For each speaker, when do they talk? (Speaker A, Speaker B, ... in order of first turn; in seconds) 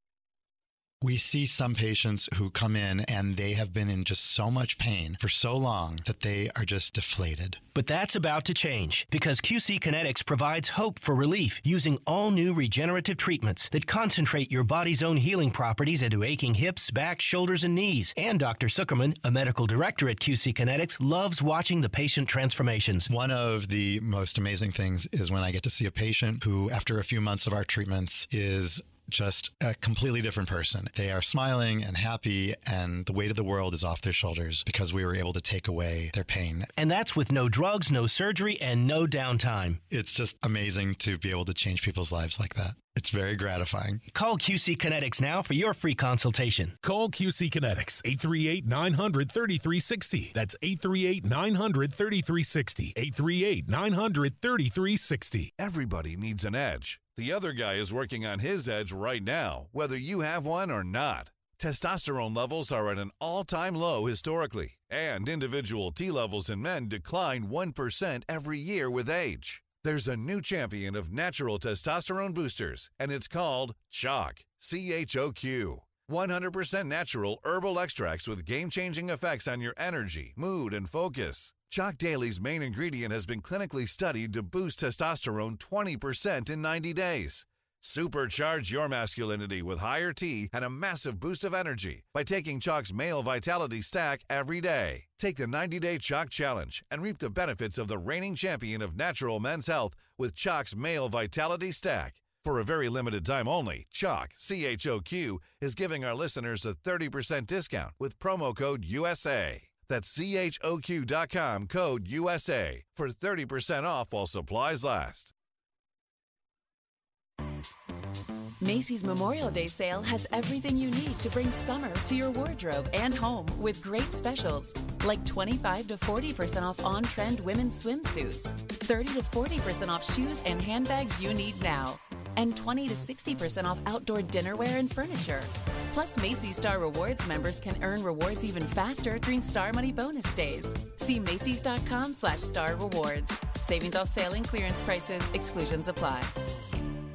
Speaker A: 1.0-7.6, 23.1-36.7, 39.9-44.0
Speaker B: 7.7-23.1, 36.8-39.8, 44.1-46.7
Speaker C: 46.8-55.5
Speaker D: 55.6-115.3
Speaker E: 118.6-146.3